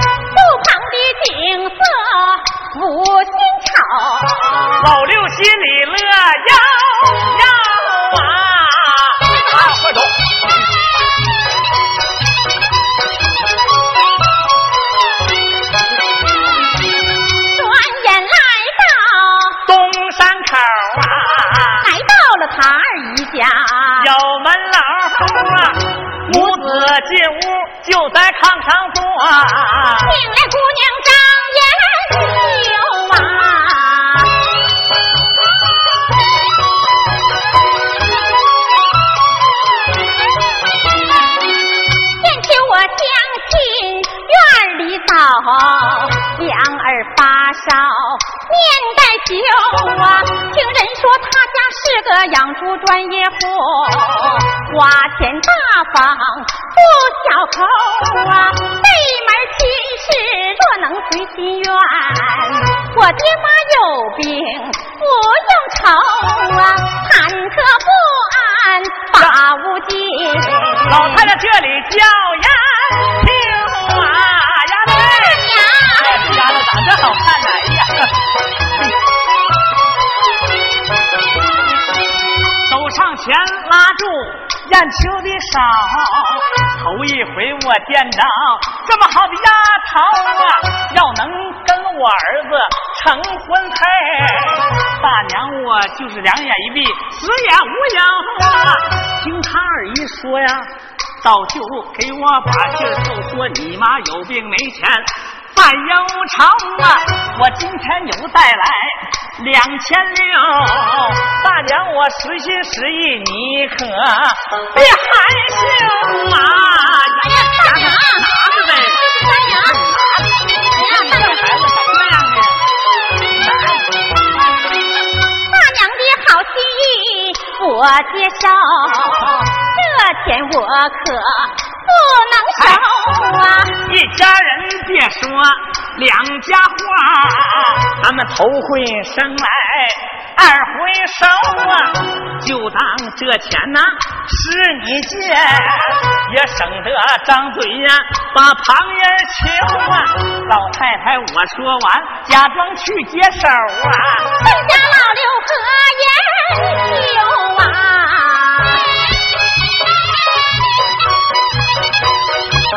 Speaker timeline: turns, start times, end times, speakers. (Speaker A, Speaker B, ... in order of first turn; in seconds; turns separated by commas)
Speaker A: 0.3-4.9, Speaker B: 4.8-10.2, Speaker A: 17.5-19.6, Speaker B: 19.6-21.9, Speaker A: 21.8-24.1, Speaker B: 24.0-30.1, Speaker A: 26.3-26.9, Speaker A: 30.0-34.4, Speaker A: 42.2-71.3, Speaker B: 70.8-78.2, Speaker A: 75.0-76.2, Speaker B: 82.7-100.7, Speaker B: 101.2-119.1, Speaker A: 117.2-119.9, Speaker B: 119.7-122.6, Speaker A: 120.6-121.4, Speaker B: 123.3-123.8, Speaker A: 125.5-133.8, Speaker B: 133.8-154.4, Speaker A: 154.4-159.0